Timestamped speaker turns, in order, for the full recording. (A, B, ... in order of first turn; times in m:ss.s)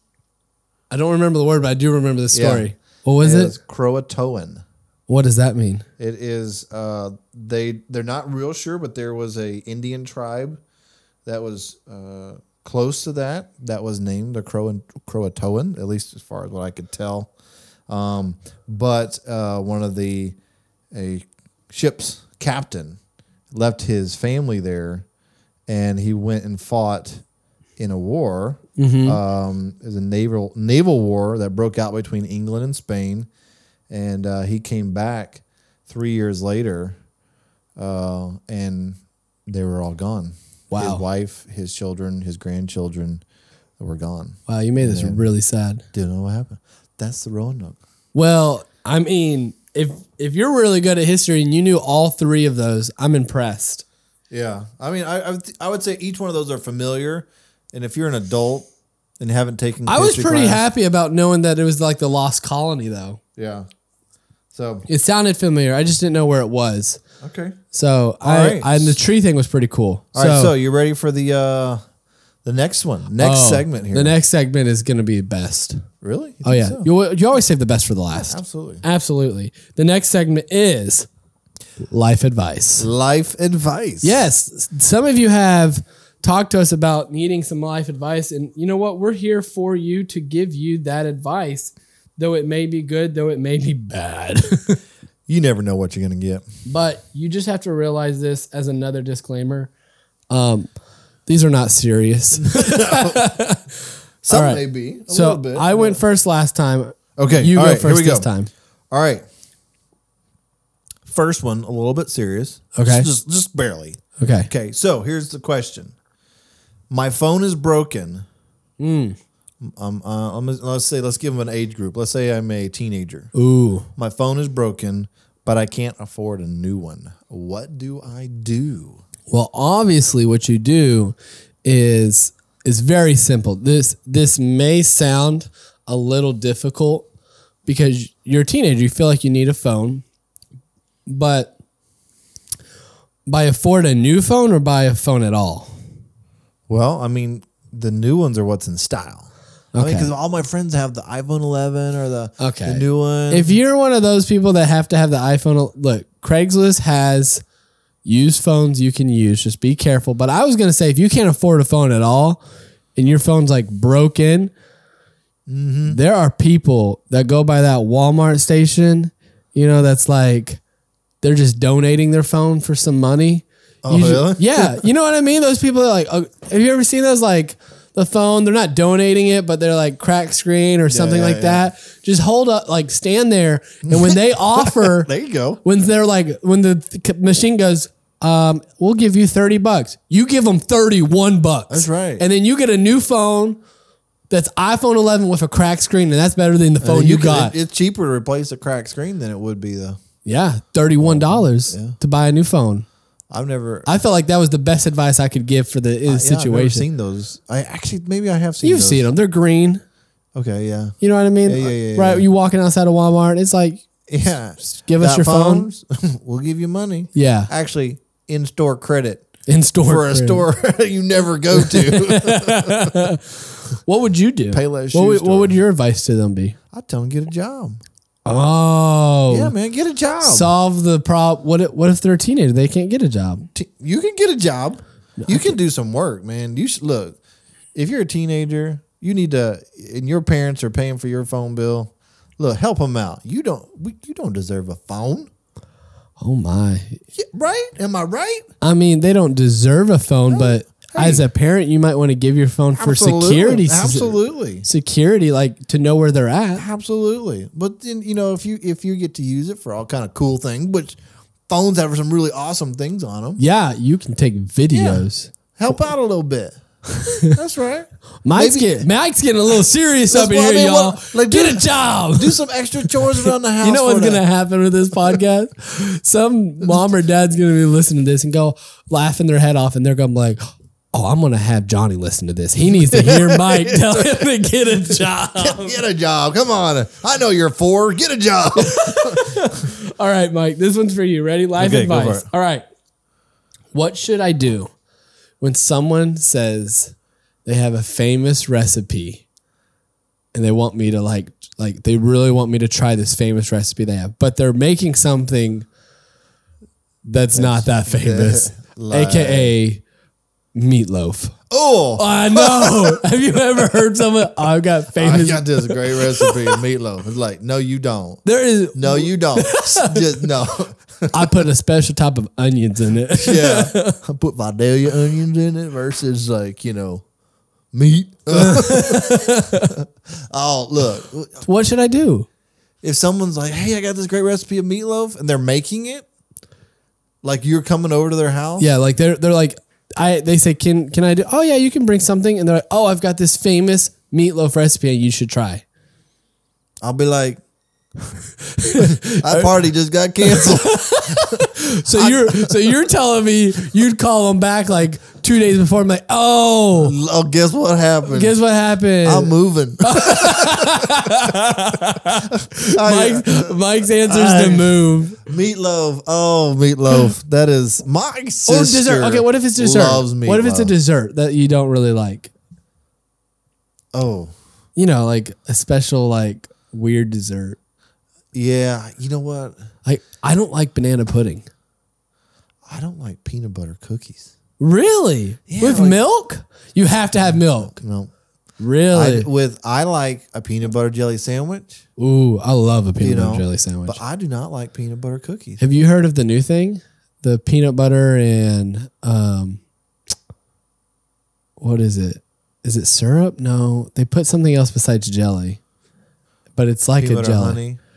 0:00.9-0:03.6 A
0:02.3-0:02.7 B
0:03.2-0:04.6 B
0:05.1-0:05.8 A
0:06.0-0:10.6 B
0:11.2-0:17.3 B
0:17.9-0:20.4 B
0:20.9-0:23.0 B
0:23.5-0:25.0 B
0:25.7-0:27.2 B
0:27.8-0:33.3 B
0:28.8-0:29.2 A
0:33.9-0:37.0 B
0:37.8-0:43.2 B
0:40.7-0:41.0 A
0:43.8-0:45.2 B
0:44.5-0:45.8 A
0:45.9-0:47.8 B
0:48.1-0:53.8 A
0:54.3-1:00.6 B
0:59.9-1:03.2 A
1:03.4-1:03.7 B
1:04.5-1:04.9 B
1:04.9-1:07.0 A
1:07.2-1:07.6 B
1:07.7-1:10.5 A
1:08.2-1:09.0 B
1:10.1-1:11.8 B
1:12.4-1:14.2 B
1:13.2-1:15.9 A
1:16.0-1:16.9 B
1:16.4-1:21.1 A
1:18.2-1:18.8 B
1:21.9-1:22.9 A
1:22.8-1:24.2 B
1:24.0-1:34.8 A
1:35.3-1:36.4 B
1:36.7-1:39.7 A
1:40.3-1:40.7 A
1:41.3-1:43.7 A
1:42.4-1:43.3 B
1:44.2-1:46.0 B
1:44.3-1:48.5 A
1:47.2-1:48.3 B
1:48.9-1:49.2 B
1:51.1-1:56.0 B
1:52.8-1:53.1 A
1:54.2-1:54.5 A
1:56.9-1:58.2 B
1:58.8-1:59.2 A
1:59.6-2:03.3 B
2:03.3-2:03.9 A
2:04.0-2:09.0 B
2:09.3-2:17.1 A
2:17.7-2:20.0 A
2:21.1-2:21.5 A
2:23.3-2:25.7 A
2:26.7-2:33.6 B
2:29.7-2:30.1 A
2:32.4-2:37.4 A
2:38.0-2:42.4 A
2:43.0-2:44.5 A
2:45.5-2:46.0 B
2:45.9-2:50.6 A
2:51.2-3:05.1 A
2:53.8-2:54.8 B
3:00.9-3:01.7 B
3:03.9-3:05.6 B
3:05.6-3:13.6 A
3:11.7-3:12.2 B
3:14.3-3:17.5 A
3:16.8-3:20.0 B
3:20.2-3:22.9 A
3:21.0-3:22.0 B
3:23.3-3:23.9 B
3:23.9-3:26.8 A
3:26.1-3:29.1 B
3:28.6-3:29.8 A
3:30.4-3:32.2 B
3:31.0-3:33.8 A
3:34.1-3:39.3 B
3:34.8-3:35.7 A
3:37.1-3:37.5 A
3:39.5-3:40.5 A
3:39.8-3:43.1 B
3:41.5-3:46.6 A
3:44.5-3:45.6 B
3:46.7-3:47.8 B
3:48.3-3:49.5 A
3:49.3-3:50.5 B
3:50.2-3:53.5 A
3:53.5-3:57.2 B
3:55.2-3:55.5 A
3:57.7-4:05.3 B
4:06.2-4:07.0 A
4:07.1-4:08.5 B
4:08.6-4:16.6 A
4:10.3-4:11.2 B
4:12.8-4:14.7 B
4:16.6-4:23.4 B
4:23.4-4:25.3 A
4:24.7-4:26.6 B
4:27.0-4:27.4 A
4:27.2-4:28.9 B
4:28.2-4:40.4 A
4:30.1-4:34.2 B
4:40.9-4:45.8 A
4:42.6-4:44.3 B
4:44.9-4:49.5 B
4:48.6-4:52.6 A
4:51.6-4:52.3 B
4:53.7-4:54.7 A
4:55.4-4:59.2 A
5:00.3-5:05.7 A
5:07.0-5:09.8 A
5:07.3-5:09.5 B
5:10.6-5:11.4 A
5:11.5-5:13.0 B
5:12.0-5:16.6 A
5:15.0-5:18.2 B
5:18.2-5:20.3 A
5:18.7-5:21.4 B
5:21.1-5:24.0 A
5:23.2-5:27.0 B
5:27.7-5:31.4 B
5:28.3-5:29.8 A
5:31.4-5:32.3 A
5:32.8-5:36.0 B
5:37.2-5:38.7 B
5:38.6-5:45.6 A
5:46.8-5:47.4 B
5:48.4-5:49.5 A
5:48.8-5:52.8 B
5:50.2-5:57.0 A
5:56.8-5:58.4 B
5:58.1-6:05.2 A
5:59.0-6:01.4 B
6:01.9-6:10.7 B
6:08.5-6:12.3 A
6:13.9-6:14.3 B
6:14.8-6:17.6 A
6:18.3-6:19.6 B
6:19.8-6:21.5 A
6:22.7-6:24.3 B
6:24.6-6:27.8 A
6:25.5-6:26.0 B
6:27.2-6:28.1 B
6:28.6-6:29.3 A
6:28.9-6:31.8 B
6:32.0-6:34.0 A
6:33.0-6:35.6 B
6:35.6-6:39.6 A
6:41.6-6:45.6 A
6:46.6-6:47.6 A
6:47.0-6:47.8 B